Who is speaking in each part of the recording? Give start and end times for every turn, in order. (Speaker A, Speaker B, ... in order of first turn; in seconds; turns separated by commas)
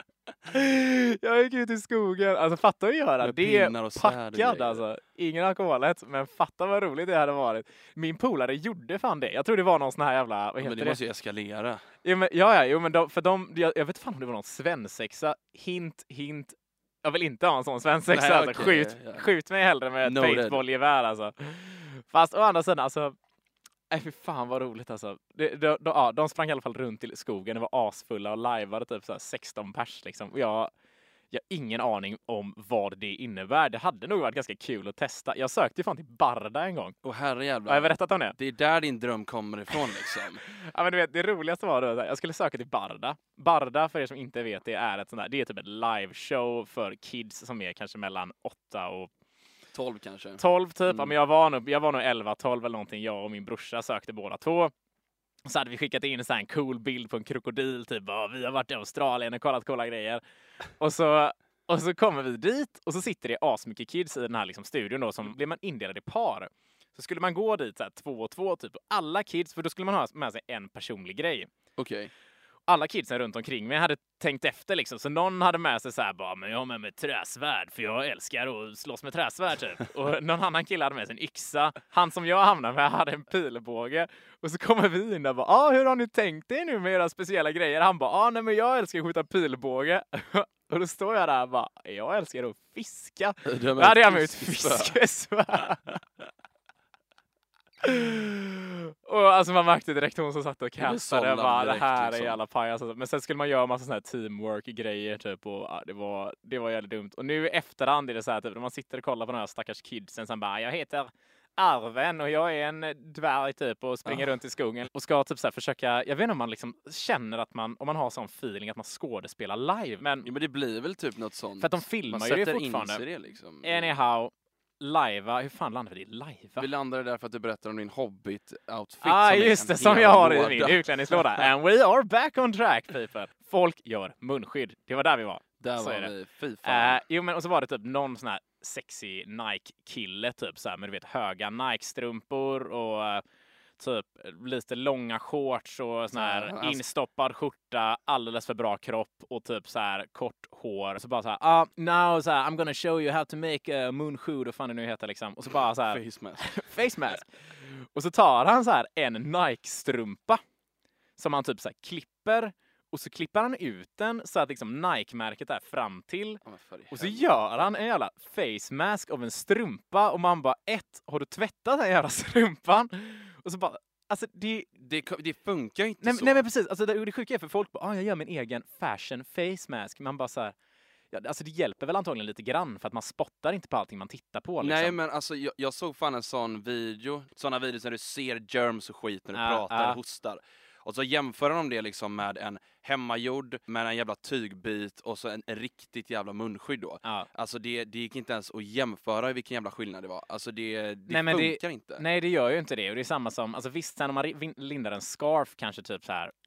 Speaker A: 0.5-11.0, Speaker B: 3.2-4.8, Speaker B: 10.6-11.8, Speaker A: 12.0-23.1, Speaker B: 18.1-19.2, Speaker B: 20.0-20.6, Speaker A: 23.9-30.7, Speaker A: 31.3-37.0, Speaker B: 37.0-40.4, Speaker A: 37.7-38.4, Speaker A: 40.4-49.1, Speaker B: 49.7-51.1, Speaker A: 50.4-54.7, Speaker A: 55.4-60.2, Speaker A: 60.8-71.5, Speaker B: 71.8-72.1, Speaker A: 72.7-96.0, Speaker B: 93.4-95.0, Speaker A: 97.8-120.3, Speaker B: 100.8-102.4, Speaker B: 120.2-123.9, Speaker A: 121.6-123.0, Speaker A: 123.6-126.7, Speaker B: 126.6-131.4, Speaker A: 129.0-136.1, Speaker B: 135.6-137.0, Speaker A: 136.6-143.2, Speaker A: 143.8-160.4, Speaker B: 146.1-146.8, Speaker B: 155.4-156.6, Speaker A: 161.2-174.7, Speaker B: 166.4-167.2, Speaker B: 174.8-176.4, Speaker A: 176.0-180.6, Speaker A: 181.1-185.0, Speaker B: 184.6-202.0, Speaker A: 189.3-190.0, Speaker A: 201.1-206.3